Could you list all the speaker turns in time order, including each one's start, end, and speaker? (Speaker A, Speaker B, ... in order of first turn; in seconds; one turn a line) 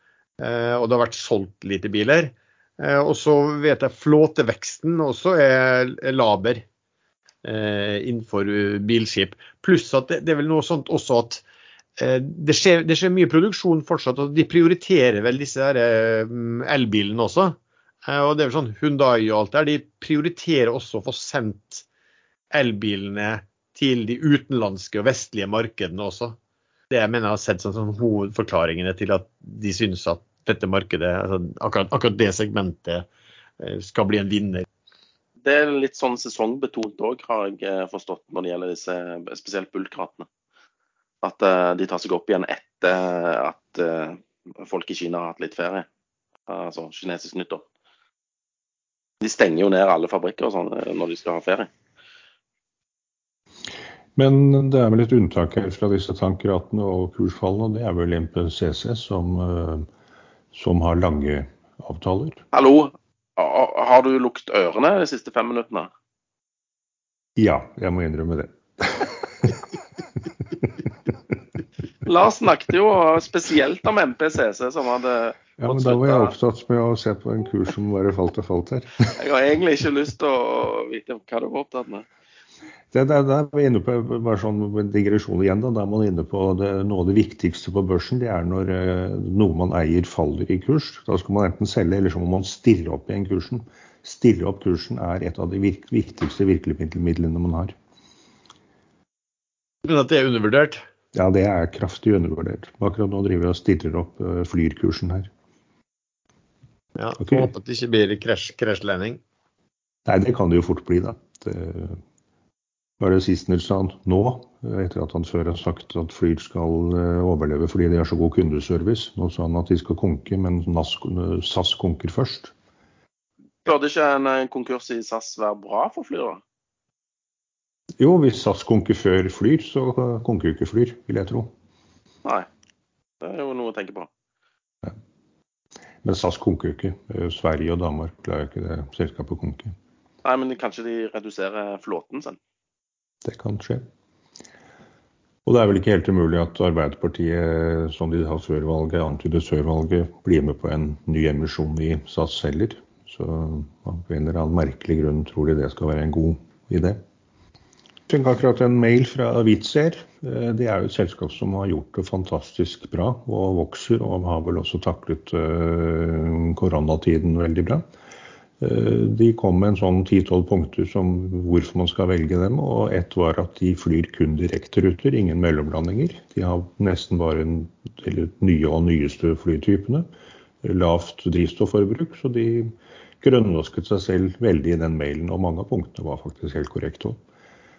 Speaker A: 0.4-6.6
Speaker A: 7.4-11.4
Speaker A: 12.0-21.9
Speaker A: 22.5-26.4
Speaker A: 26.9-33.1
Speaker A: 33.6-34.7
Speaker B: 35.4-40.3
Speaker B: 41.2-45.9
Speaker B: 46.5-47.6
Speaker B: 49.2-51.7
Speaker C: 54.2-59.9
Speaker C: 60.5-62.4
Speaker B: 62.5-65.9
Speaker C: 67.4-69.6
Speaker B: 72.0-76.3
Speaker C: 75.6-78.9
Speaker B: 79.1-82.1
Speaker C: 82.9-97.7
Speaker A: 99.8-100.8
Speaker C: 101.1-105.3
Speaker A: 107.0-109.2
Speaker C: 107.2-107.5
Speaker C: 110.1-112.0
Speaker C: 113.0-122.5
Speaker B: 123.6-126.4
Speaker C: 128.0-131.5
Speaker B: 133.2-134.1
Speaker C: 136.0-139.8
Speaker B: 140.2-142.4
Speaker C: 143.2-143.8
Speaker C: 145.4-157.0
Speaker C: 158.1-167.8
Speaker C: 168.6-180.1
Speaker C: 180.6-187.2